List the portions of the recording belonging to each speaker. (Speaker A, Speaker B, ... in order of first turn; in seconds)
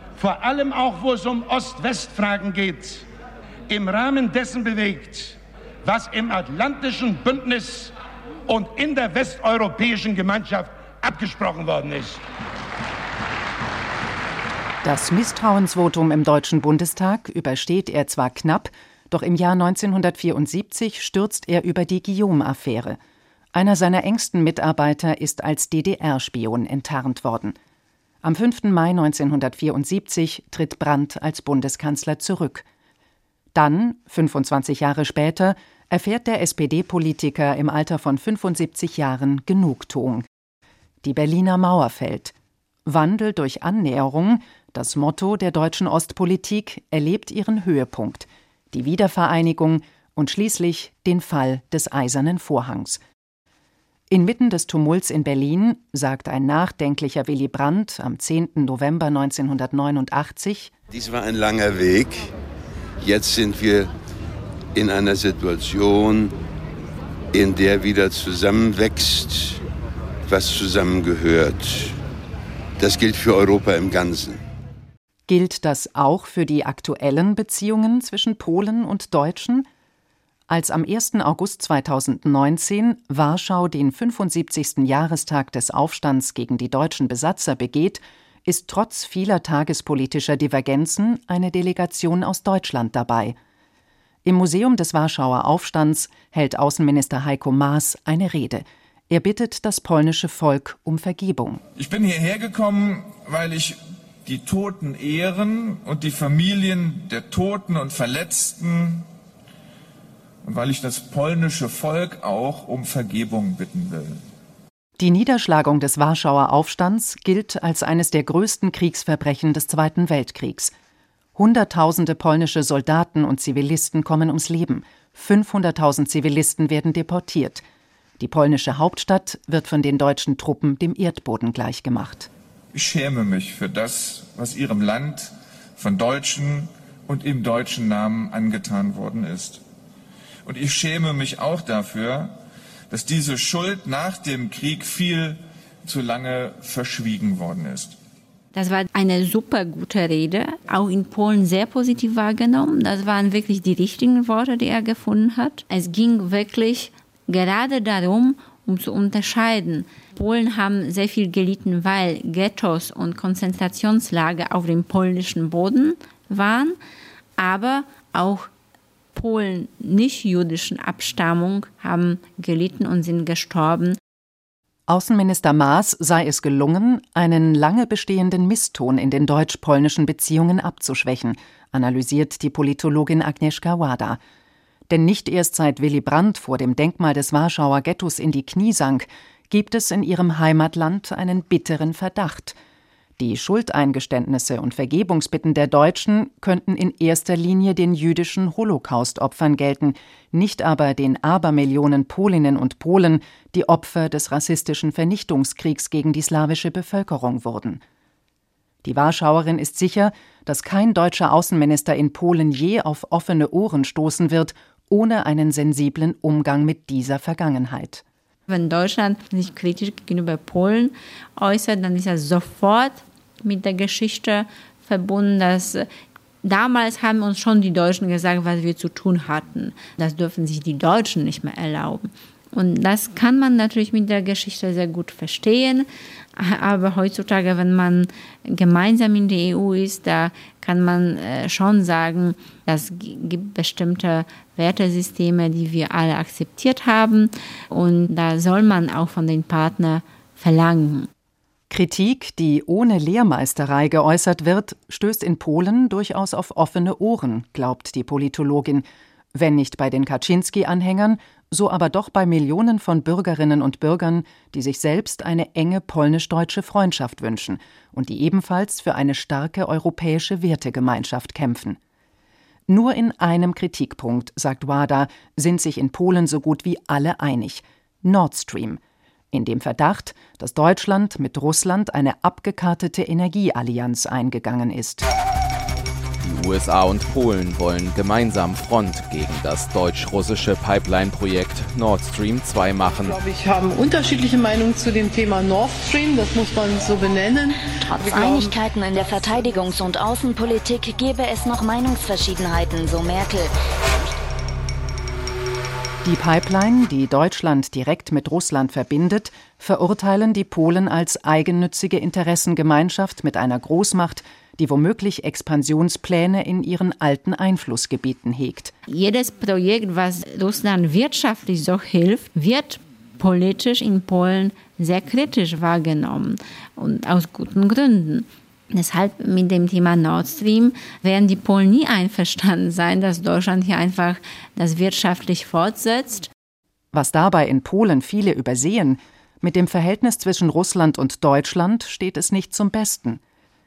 Speaker A: 0.2-3.0, 3.7-7.9, 8.5-12.2
Speaker B: 14.8-23.0, 23.5-27.6, 28.2-32.6, 33.5-40.3, 41.0-42.3, 42.8-53.0, 54.1-60.7, 75.3-79.7, 80.5-93.3, 94.2-101.6, 115.0-120.7, 121.3-127.6, 128.2-132.3, 174.9-184.2, 184.9-192.6, 193.2-207.8, 208.8-218.0, 251.7-271.8, 272.7-278.8, 279.3-285.1, 306.0-318.7, 336.9-343.2
Speaker C: 60.9-62.3, 63.0-63.9, 64.7-66.3, 67.3-69.6, 70.3-72.0, 72.8-74.4
Speaker D: 101.8-109.1, 110.4-114.2, 132.7-139.6, 140.4-142.4, 142.9-147.9
Speaker E: 148.5-166.8, 167.4-168.5, 169.1-174.0, 218.5-225.8, 226.4-251.1, 318.9-336.3
Speaker F: 286.2-293.2
Speaker G: 292.9-298.5
Speaker H: 297.9-303.5